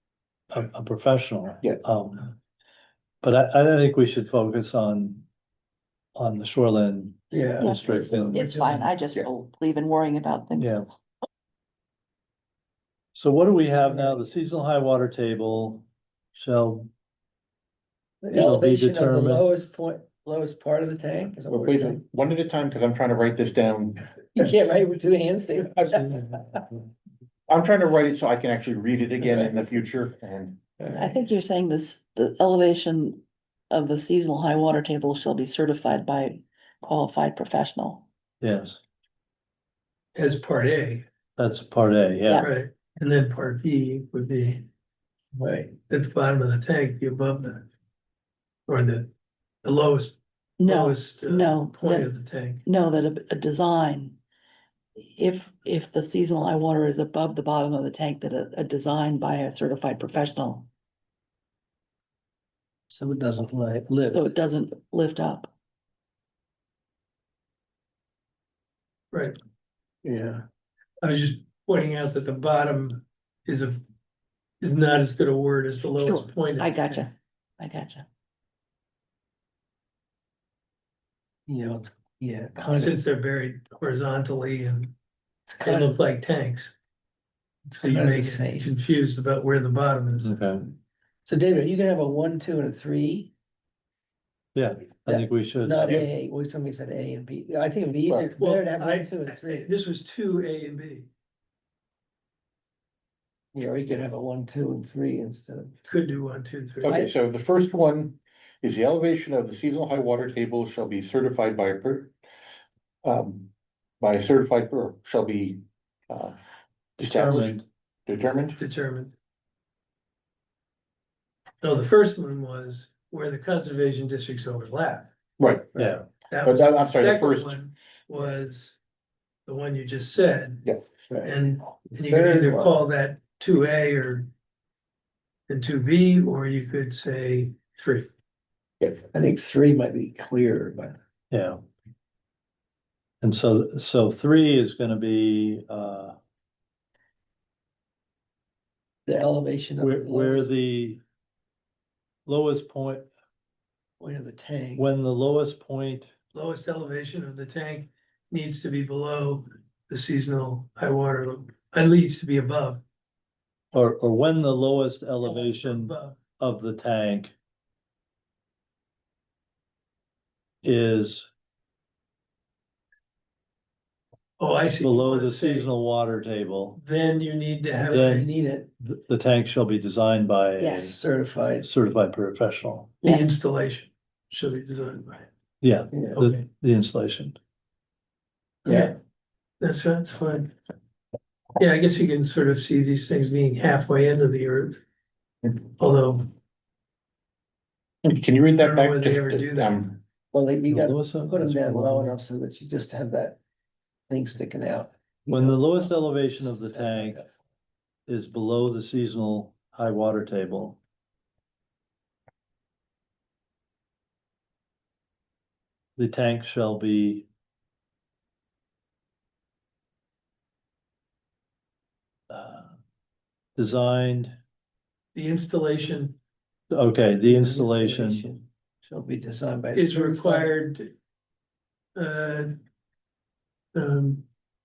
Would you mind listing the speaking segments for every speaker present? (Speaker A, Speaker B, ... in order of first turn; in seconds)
Speaker A: 0.5-2.4, 3.2-5.2, 6.1-8.5, 10.6-10.8, 13.1-16.9, 18.3-19.5, 38.4-38.8, 41.4-42.5, 90.2-90.7, 94.5-96.0, 117.0-117.7, 125.8-126.0, 141.3-141.6, 143.2-146.2, 149.8-151.0, 152.2-153.1, 154.8-156.1, 163.7-167.3, 170.6-171.3, 174.8-176.8, 177.9-181.0, 181.6-183.0, 185.6-187.4, 200.7-202.2, 205.3-207.2, 208.1-210.8, 216.0-217.2, 222.3-222.7, 223.6-224.3, 226.7-228.3
Speaker B: 7.3-8.8, 18.2-22.0, 24.3-26.6, 30.8-31.1, 45.3-45.8, 62.9-64.3, 70.0-70.4, 81.5-83.0, 85.5-86.0, 87.8-88.7, 91.2-93.3, 95.1-99.7, 103.5-105.8, 106.8-107.1, 125.7-126.0, 131.1-131.4, 131.9-132.8, 139.1-141.0, 149.1-150.5, 154.0-154.9, 177.9-178.7, 180.8-181.7, 185.9-186.2, 188.6-188.9, 200.3-203.4, 204.1-207.3, 227.2-230.5
Speaker C: 7.6-10.8, 31.0-38.0, 50.6-52.1, 52.6-54.2, 55.0-60.7, 64.1-65.5, 75.9-78.0, 180.6-180.9, 183.0-183.3
Speaker D: 21.5-24.1, 27.5-30.7, 106.8-112.1, 113.0-116.3, 117.0-118.6, 125.4-125.7, 126.4-127.6, 138.8-139.1, 198.0-200.0
Speaker E: 40.1-41.0, 42.4-44.6, 45.9-47.6, 48.7-49.1, 49.6-52.6, 71.0-73.8, 74.6-77.0, 82.7-84.9, 85.6-86.8, 87.7-90.3, 98.4-101.1, 105.8-107.0, 118.5-119.1, 121.6-125.1, 126.3-128.8, 129.4-130.7, 131.2-134.3, 135.5-138.1, 156.3-162.8, 165.2-166.2, 174.4-175.7, 176.8-178.2, 183.0-185.3, 186.1-186.4, 188.6-188.9, 189.6-190.5, 191.6-194.8, 195.7-196.3, 198.6-199.8, 225.1-226.2, 229.7-230.9, 231.9-232.5, 233.7-234.2